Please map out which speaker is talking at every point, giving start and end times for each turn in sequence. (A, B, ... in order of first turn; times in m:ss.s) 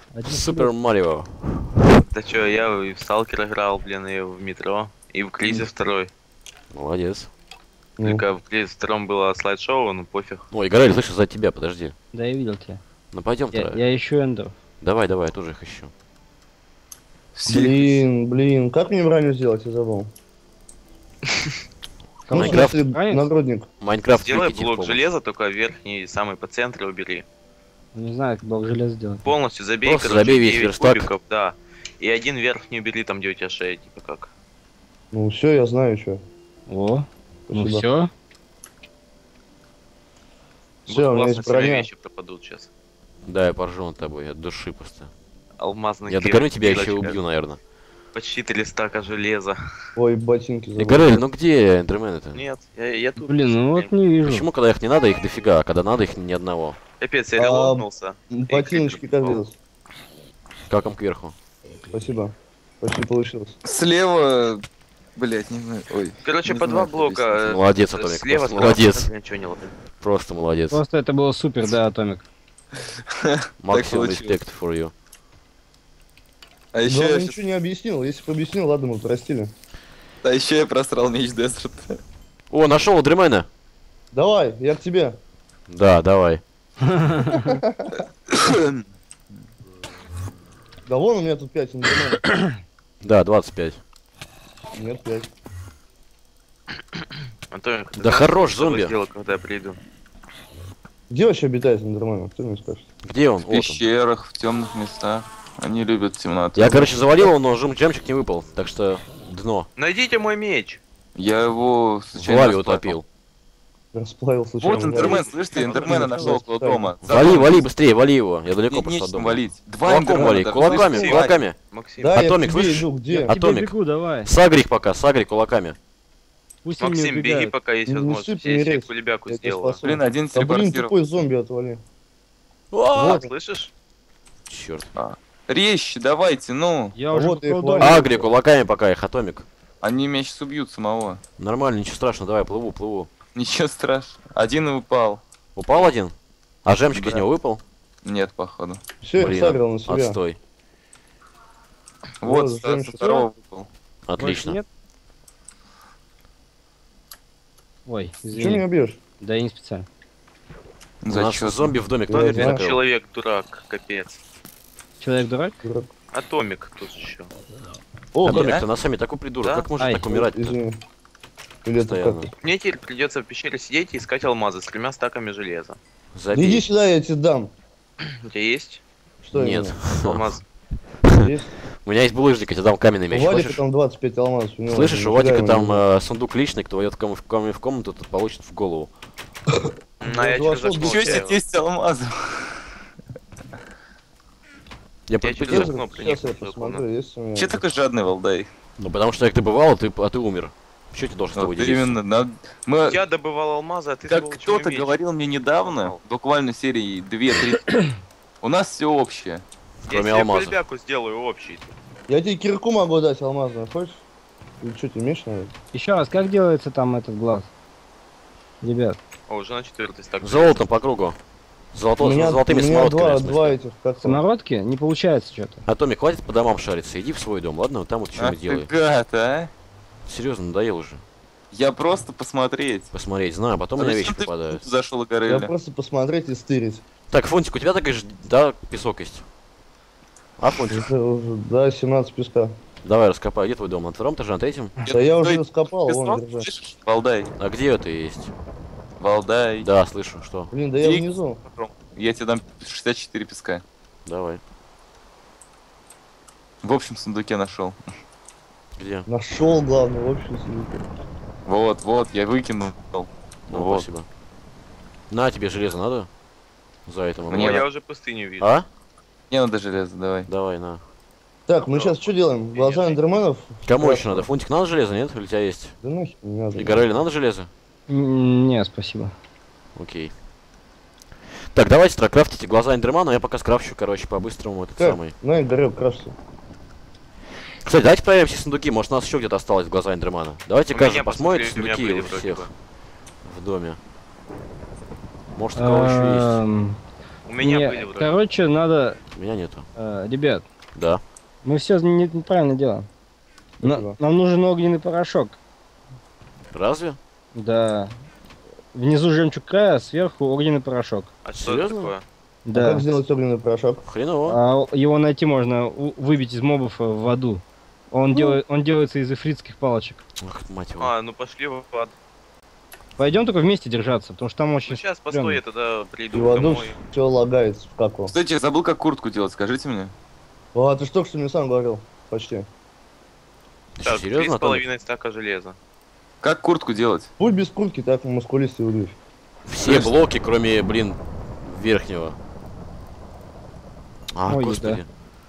0:00.1-0:00.7 A
0:00.2-0:02.0 B
0:02.1-0:06.1 C
0:06.7-0:07.3 B
0:08.0-0:08.2 D
0:08.0-0:10.4 C
0:10.5-0:11.9 B
0:12.1-0:12.8 A
0:13.1-0:13.8 B
0:13.5-0:14.5 A
0:14.8-0:15.9 B
0:17.3-0:17.9 E
0:17.5-0:20.1 D
0:22.3-0:23.3 A
0:22.3-0:22.7 B
0:22.3-0:23.7 D
0:23.8-0:25.1 B
0:24.1-0:27.2 C
0:27.9-0:29.2 A
0:29.2-0:34.3 C
0:29.8-0:31.1 B
0:35.1-0:36.2 D
0:36.7-0:38.1 A
0:37.5-0:37.8 D
0:40.9-0:41.9 D
0:40.9-0:42.7 C
0:43.2-0:45.1 B
0:45.6-0:47.2 C
0:46.1-0:47.6 B
0:48.1-0:49.6 C
0:50.0-0:51.2 D
0:50.8-0:52.4 B
0:52.3-0:53.9 C
0:53.2-0:54.5 A
0:54.2-0:56.8 B
0:57.0-0:59.4 C
0:57.4-0:59.5 D
1:00.7-1:01.3 B
1:01.9-1:03.6 D
1:03.6-1:04.6 E
1:05.2-1:07.4 E
1:06.2-1:09.7 C
1:07.4-1:09.1 B
1:10.0-1:10.8 B
1:10.7-1:12.2 A
1:13.1-1:14.4 E
1:13.6-1:14.9 B
1:16.7-1:17.4 E
1:16.8-1:19.5 D
1:20.2-1:22.0 E
1:22.5-1:23.5 B
1:24.1-1:25.2 D
1:25.7-1:26.4 B
1:26.9-1:27.5 A
1:27.3-1:28.0 D
1:28.3-1:28.8 E
1:30.8-1:32.2 D
1:33.0-1:33.8 B
1:34.8-1:35.3 D
1:37.5-1:39.8 C
1:38.0-1:38.9 B
1:41.1-1:42.9 D
1:43.0-1:43.8 B
1:43.5-1:47.3 E
1:46.5-1:49.7 B
1:49.8-1:50.8 C
1:51.2-1:52.9 E
1:52.1-1:53.0 B
1:53.9-1:57.0 D
1:54.6-1:57.7 E
1:54.7-1:56.3 C
1:55.7-1:56.3 A
1:57.0-2:01.6 B
1:58.7-2:01.4 E
2:00.5-2:02.2 C
2:02.0-2:03.3 D
2:02.1-2:05.8 B
2:03.1-2:04.3 A
2:06.6-2:07.5 A
2:06.8-2:09.8 C
2:07.9-2:11.8 D
2:09.8-2:10.9 E
2:12.7-2:13.2 B
2:12.9-2:13.3 D
2:12.9-2:13.7 C
2:14.4-2:14.9 B
2:14.9-2:17.0 E
2:16.9-2:18.0 A
2:17.1-2:18.2 D
2:17.8-2:19.4 B
2:19.8-2:21.2 E
2:21.4-2:23.1 B
2:23.3-2:25.2 E
2:25.6-2:27.6 B
2:26.9-2:27.3 E
2:28.0-2:28.8 E
2:29.0-2:30.2 D
2:29.1-2:30.4 B
2:32.2-2:33.7 E
2:32.2-2:33.2 D
2:34.1-2:34.6 B
2:34.2-2:34.6 A
2:37.8-2:38.6 A
2:38.3-2:39.0 D
2:39.2-2:39.9 A
2:41.0-2:41.8 E
2:41.1-2:42.8 B
2:42.1-2:42.6 D
2:42.3-2:44.2 C
2:45.0-2:45.6 A
2:45.6-2:45.9 D
2:46.1-2:47.3 C
2:48.1-2:48.6 D
2:48.2-2:50.6 B
2:49.4-2:49.7 C
2:49.8-2:50.1 A
2:50.1-2:50.8 D
2:51.6-2:52.3 D
2:51.7-2:52.3 B
2:52.4-2:55.8 C
2:56.1-2:56.6 B
2:56.3-2:57.5 D
2:58.2-2:58.8 C
2:59.2-2:59.8 D
2:59.3-3:00.4 B
3:00.0-3:00.4 C
3:01.0-3:03.6 B
3:01.2-3:01.5 D
3:03.1-3:05.8 D
3:04.7-3:08.9 B
3:09.5-3:11.2 D
3:10.0-3:11.4 C
3:10.8-3:12.6 E
3:15.1-3:15.7 B
3:15.2-3:16.8 C
3:15.5-3:17.6 D
3:17.4-3:18.5 E
3:18.8-3:22.0 B
3:21.3-3:23.0 E
3:22.9-3:25.0 C
3:24.1-3:27.8 E
3:25.6-3:26.0 C
3:28.4-3:29.4 E
3:29.8-3:30.6 B
3:29.9-3:31.7 C
3:32.1-3:34.0 D
3:34.6-3:35.5 D
3:35.7-3:37.5 A
3:38.6-3:39.0 A
3:39.3-3:40.6 C
3:40.2-3:41.2 B
3:41.7-3:43.6 B
3:42.0-3:44.2 D
3:44.0-3:45.6 A
3:45.6-3:48.7 B
3:48.2-3:49.5 E
3:50.0-3:51.0 B
3:51.5-3:52.9 E
3:52.9-3:54.6 B
3:53.8-3:55.5 E
3:55.2-3:56.8 D
3:57.1-3:59.2 B
4:00.4-4:00.9 B
4:00.7-4:02.6 D
4:02.8-4:04.8 B
4:04.8-4:07.3 E
4:04.9-4:06.5 D
4:07.4-4:08.3 B
4:09.0-4:09.7 E
4:09.6-4:10.5 B
4:10.5-4:11.4 D
4:10.8-4:13.6 E
4:14.0-4:14.4 B
4:16.6-4:17.8 E
4:18.8-4:19.1 B
4:19.1-4:20.8 D
4:21.4-4:23.9 E
4:23.5-4:24.1 B
4:25.1-4:26.1 B
4:26.8-4:27.6 B
4:27.3-4:27.6 E
4:27.3-4:28.5 C
4:28.4-4:28.6 B
4:29.3-4:30.3 E
4:30.3-4:30.8 B
4:31.5-4:34.3 D
4:31.6-4:33.0 C
4:33.6-4:35.8 B
4:35.8-4:36.8 D
4:36.6-4:37.5 B
4:37.9-4:39.1 A
4:39.7-4:40.1 B
4:41.5-4:45.1 B
4:44.8-4:46.1 D
4:47.6-4:52.5 B
4:50.7-4:52.5 C
4:53.2-4:53.8 B
4:55.3-4:56.4 B
4:55.6-4:56.8 A
4:57.3-4:58.2 C
4:57.4-4:59.0 A
4:59.1-4:59.6 B
4:59.8-5:00.4 A
5:00.7-5:01.0 B
5:01.4-5:02.9 A
5:03.6-5:05.4 A
5:03.6-5:04.0 D
5:06.5-5:07.0 B
5:07.3-5:07.9 A
5:08.7-5:11.1 A
5:11.2-5:12.0 C
5:11.4-5:11.9 B
5:12.4-5:12.9 A
5:12.5-5:13.8 D
5:13.8-5:14.4 B
5:14.3-5:20.0 A
5:18.1-5:18.4 D
5:20.2-5:20.9 B
5:20.8-5:21.9 C
5:23.0-5:25.4 A
5:24.6-5:26.8 C
5:26.1-5:28.1 D
5:28.1-5:29.9 E
5:30.5-5:32.5 D
5:33.8-5:34.6 B
5:33.8-5:35.6 C
5:36.2-5:37.1 E
5:37.2-5:39.0 D
5:39.5-5:42.2 B
5:39.6-5:40.0 E
5:44.1-5:44.9 B
5:44.3-5:44.8 A